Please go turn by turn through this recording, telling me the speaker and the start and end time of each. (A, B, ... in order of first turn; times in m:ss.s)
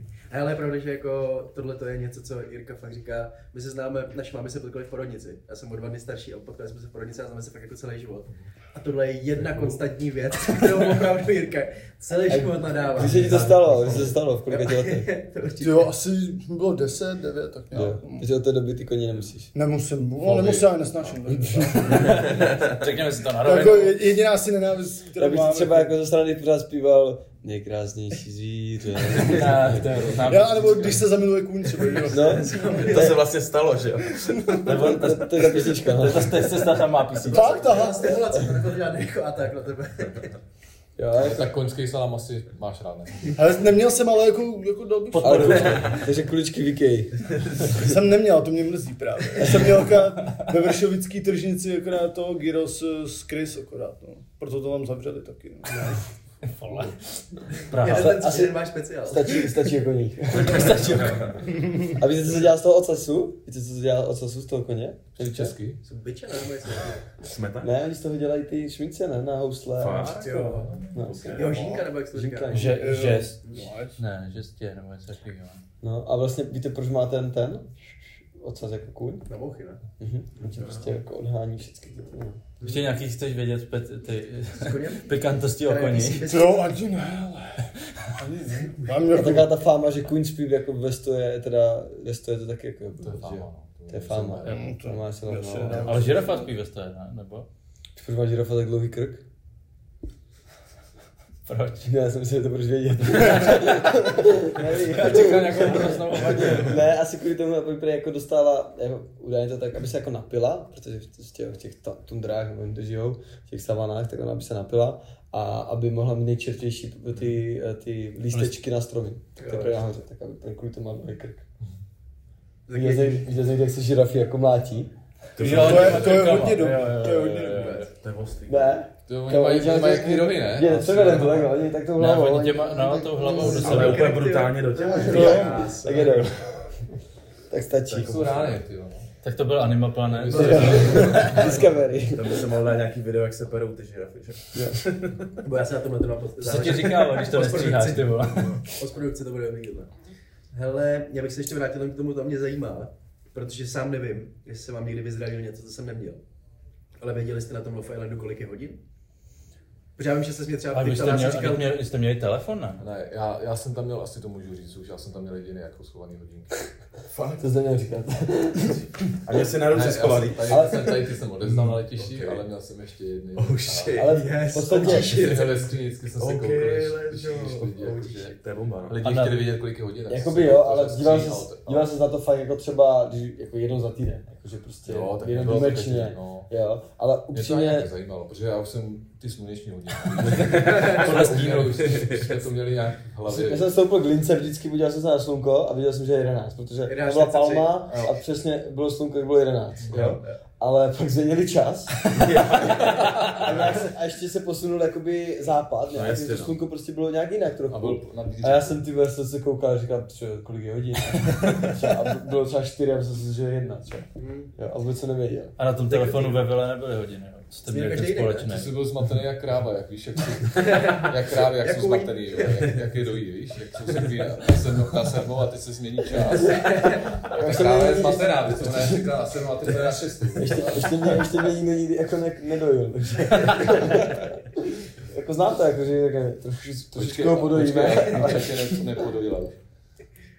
0:00.3-0:15.9 A
0:12.3-0:15.1 B
0:15.6-0:18.2 C
0:17.7-0:19.5 B
0:19.5-0:22.3 C
0:20.3-0:20.6 D
0:21.3-0:22.0 B
0:21.8-0:24.0 D
0:23.4-0:25.9 C
0:25.2-0:29.9 B
0:29.1-0:31.0 D
0:30.2-0:32.8 C
0:32.1-0:33.2 B
0:32.2-0:33.1 A
0:32.7-0:34.8 E
0:34.6-0:37.9 D
0:34.7-0:36.6 B
0:37.2-0:38.3 C
0:37.3-0:40.4 A
0:41.0-0:41.5 B
0:41.1-0:43.4 F
0:43.4-0:45.8 C
0:45.1-0:46.1 D
0:45.2-0:47.9 B
0:47.6-0:56.0 C
0:56.5-0:57.0 D
0:57.5-0:58.2 D
0:57.7-0:59.5 A
0:57.8-1:01.2 B
1:00.3-1:01.4 D
1:01.8-1:05.6 B
1:05.2-1:05.8 F
1:05.8-1:07.1 A
1:07.2-1:07.7 E
1:07.6-1:10.4 B
1:09.8-1:11.8 E
1:10.2-1:10.7 A
1:10.6-1:10.9 F
1:10.9-1:11.5 B
1:11.3-1:12.7 A
1:12.1-1:13.2 B
1:12.5-1:13.4 D
1:12.6-1:14.0 C
1:14.0-1:15.6 D
1:15.8-1:19.3 B
1:19.3-1:19.8 A
1:20.0-1:22.4 B
1:20.4-1:20.9 E
1:22.6-1:26.3 D
1:24.5-1:26.7 A
1:26.2-1:29.5 C
1:29.1-1:36.1 B
1:33.0-1:34.6 F
1:34.4-1:36.5 C
1:35.7-1:37.5 D
1:38.0-1:39.2 B
1:41.4-1:41.9 D
1:41.8-2:01.4 B
1:43.3-1:44.0 D
1:44.6-1:46.9 D
1:58.3-1:58.6 D
1:59.4-1:59.8 A
2:02.7-2:03.3 A
2:02.7-2:04.9 B
2:05.4-2:06.5 E
2:05.4-2:07.9 D
2:05.5-2:07.8 C
2:07.6-2:08.8 E
2:08.5-2:14.0 B
2:09.1-2:11.5 F
2:12.0-2:14.2 D
2:13.3-2:16.2 A
2:13.5-2:16.3 E
2:14.7-2:15.8 C
2:15.0-2:16.4 B
2:17.5-2:18.6 B
2:17.9-2:18.6 E
2:18.0-2:19.1 F
2:19.2-2:21.5 D
2:20.0-2:21.8 F
2:20.3-2:21.4 A
2:20.3-2:22.5 B
2:22.1-2:25.3 E
2:24.5-2:24.8 B
2:25.4-2:29.9 A
2:26.4-2:28.6 D
2:30.5-2:36.2 A
2:37.0-2:38.8 A
2:40.0-2:41.8 A
2:40.7-2:42.8 D
2:42.8-2:46.7 F
2:47.1-2:47.4 E
2:47.4-2:49.1 B
2:49.2-2:52.4 E
2:49.7-2:54.1 F
2:50.5-2:51.0 B
2:53.3-2:54.2 E
2:54.0-2:55.2 B
2:54.1-2:55.6 A
2:54.8-2:58.4 F
2:56.2-2:59.0 E
2:57.3-2:58.2 A
2:58.9-3:01.9 F
2:59.0-2:59.5 D
3:00.1-3:07.9 B
3:04.8-3:06.5 F
3:07.3-3:13.7 F
3:10.3-3:12.3 E
3:11.0-3:11.7 D
3:13.2-3:35.6 B
3:16.8-3:17.8 A
3:19.8-3:20.2 F
3:22.1-3:23.9 E
3:25.9-3:26.6 E
3:27.7-3:28.8 F
3:34.2-3:34.5 A
3:35.6-3:38.7 D
3:35.9-3:36.4 A
3:37.6-3:38.5 A
3:38.5-3:51.2 F
3:40.5-3:42.8 A
3:46.2-3:47.2 A
3:47.3-3:49.1 B
3:50.3-3:58.9 B
3:56.9-3:59.6 F